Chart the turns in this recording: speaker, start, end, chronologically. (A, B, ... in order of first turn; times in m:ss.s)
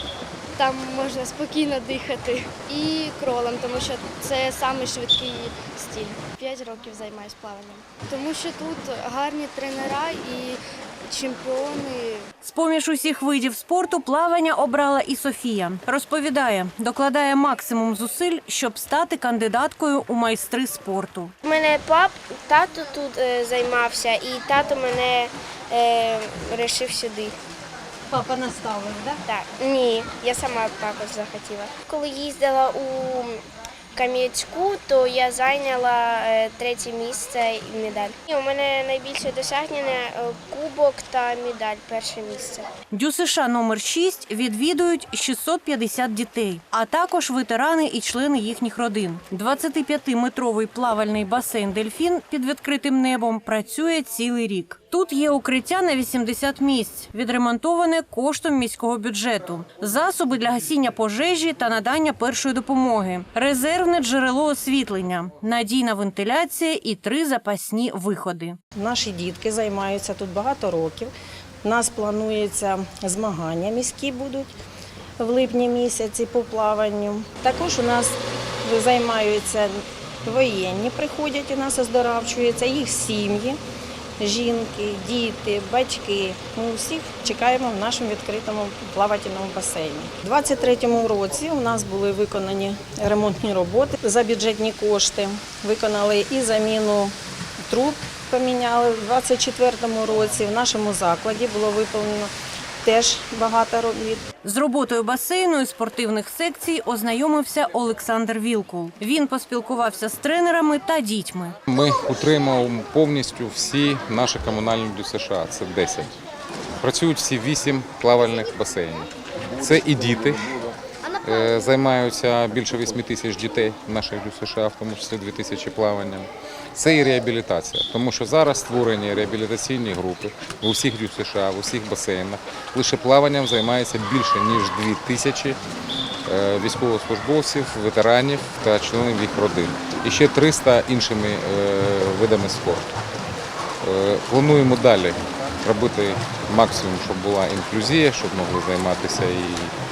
0:00.6-0:12.3 A
0:12.4-0:21.3 B
0:21.4-0:27.4 C
0:28.1-0:29.2 B
0:29.2-0:33.4 C
0:33.9-0:42.7 C
0:42.9-1:08.6 B
1:08.7-1:11.1 D
1:11.6-1:14.5 D
1:15.2-1:23.6 D
1:24.2-1:37.1 D
1:37.6-1:42.3 D
1:42.8-1:44.2 D
1:44.4-1:51.6 B
1:51.7-1:56.2 E
1:56.8-2:00.5 E
2:01.2-2:15.6 E
2:16.2-2:23.0 E
2:23.8-2:29.8 E